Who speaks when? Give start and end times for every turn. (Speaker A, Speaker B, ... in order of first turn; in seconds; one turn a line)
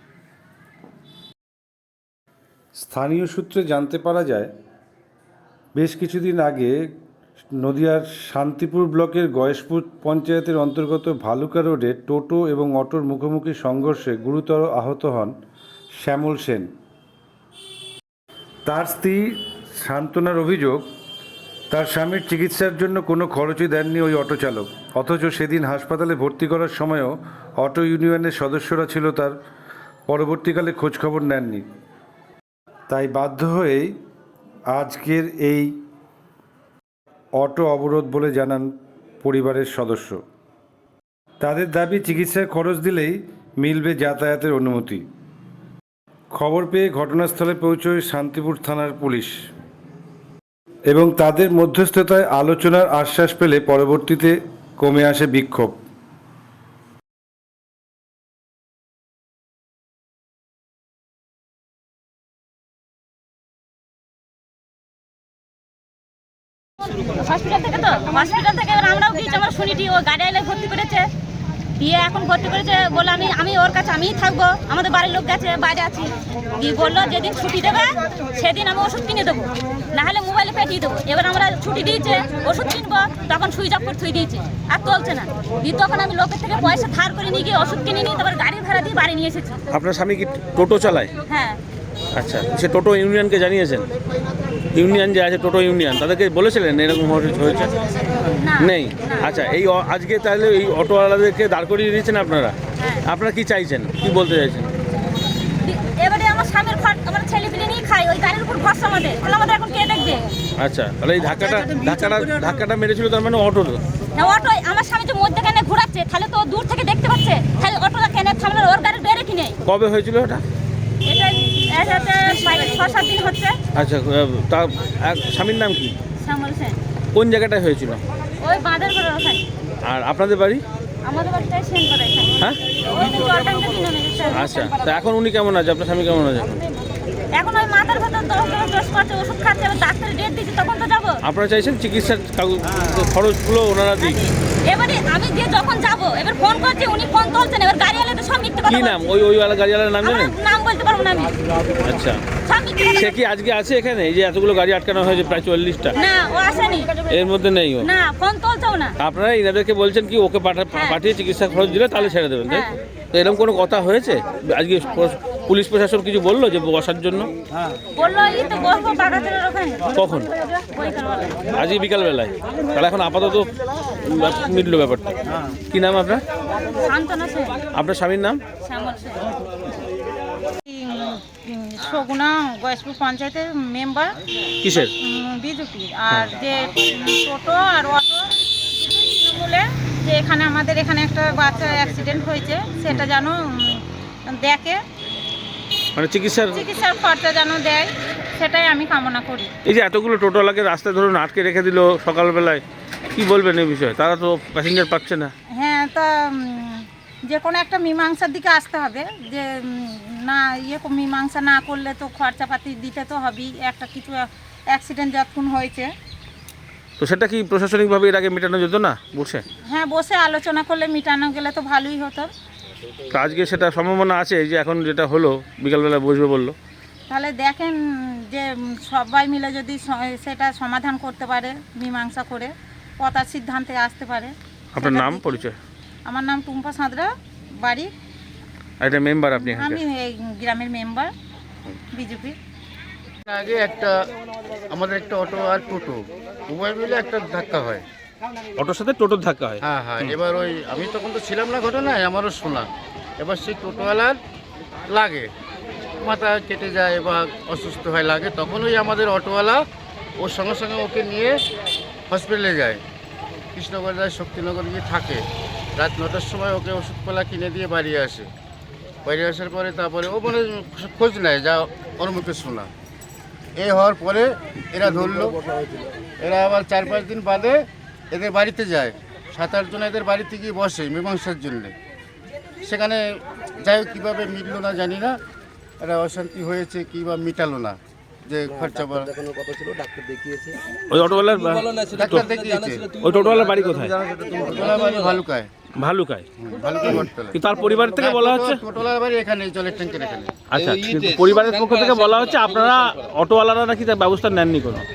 Speaker A: 2.8-4.5
Speaker A: 5.8-6.8
Speaker A: 7.6-15.3
Speaker A: 16.0-16.7
Speaker A: 18.6-20.9
Speaker A: 21.7-29.4
Speaker A: 30.1-31.6
Speaker A: 32.9-33.9
Speaker A: 34.7-35.7
Speaker A: 37.4-38.7
Speaker A: 39.2-40.2
Speaker A: 41.4-45.0
Speaker A: 46.3-49.4
Speaker A: 50.9-55.7
Speaker B: 66.9-71.1
Speaker B: 71.8-89.6
Speaker C: 89.7-91.1
Speaker B: 91.3-91.6
Speaker C: 92.1-93.9
Speaker C: 94.7-97.7
Speaker B: 98.4-99.3
Speaker C: 98.6-102.5
Speaker B: 102.8-103.0
Speaker C: 103.0-104.7
Speaker B: 105.6-110.2
Speaker C: 110.6-113.8
Speaker B: 114.2-119.5
Speaker C: 119.6-120.4
Speaker B: 121.0-123.6
Speaker C: 123.7-125.9
Speaker B: 126.2-126.8
Speaker C: 127.1-128.0
Speaker B: 128.4-129.4
Speaker C: 129.8-130.6
Speaker B: 131.0-134.9
Speaker C: 134.3-136.6
Speaker B: 137.3-141.2
Speaker C: 141.2-144.2
Speaker B: 144.0-149.0
Speaker C: 148.7-150.4
Speaker B: 150.0-151.4
Speaker C: 151.8-152.3
Speaker B: 152.3-153.1
Speaker C: 152.9-155.9
Speaker B: 155.9-157.1
Speaker C: 157.1-157.9
Speaker B: 157.8-159.0
Speaker C: 159.0-167.3
Speaker B: 160.7-161.0
Speaker B: 162.4-162.8
Speaker B: 167.9-169.9
Speaker C: 169.9-170.3
Speaker B: 170.4-171.5
Speaker C: 171.5-175.2
Speaker C: 175.7-176.2
Speaker B: 176.6-177.6
Speaker C: 177.7-178.4
Speaker B: 178.6-179.3
Speaker D: 180.7-194.8
Speaker C: 184.6-184.9
Speaker C: 195.9-196.6
Speaker D: 196.5-199.5
Speaker C: 199.6-205.3
Speaker D: 205.5-215.9
Speaker C: 217.0-219.4
Speaker D: 219.7-222.3
Speaker C: 223.1-226.6
Speaker D: 227.1-235.4
Speaker C: 234.7-235.6
Speaker D: 236.1-237.9
Speaker C: 238.8-239.8
Speaker D: 239.3-241.1
Speaker D: 241.9-242.4
Speaker E: 243.3-244.1
Speaker E: 244.7-247.8
Speaker C: 248.6-250.2
Speaker E: 249.6-252.7
Speaker E: 253.2-254.2
Speaker E: 254.9-255.3
Speaker E: 256.0-259.6
Speaker E: 260.2-261.4
Speaker E: 262.1-262.8
Speaker E: 263.5-265.2
Speaker E: 265.8-268.3
Speaker E: 269.0-272.7
Speaker E: 273.6-275.4
Speaker E: 276.2-281.7
Speaker E: 282.6-285.2
Speaker E: 285.8-289.1
Speaker F: 288.5-290.6
Speaker C: 290.9-292.3
Speaker F: 291.6-295.1
Speaker E: 291.9-292.9
Speaker C: 293.0-294.0
Speaker E: 294.4-295.5
Speaker C: 295.8-296.2
Speaker E: 296.4-297.4
Speaker C: 297.3-298.6
Speaker E: 298.0-300.4
Speaker C: 300.5-304.8
Speaker F: 300.6-302.5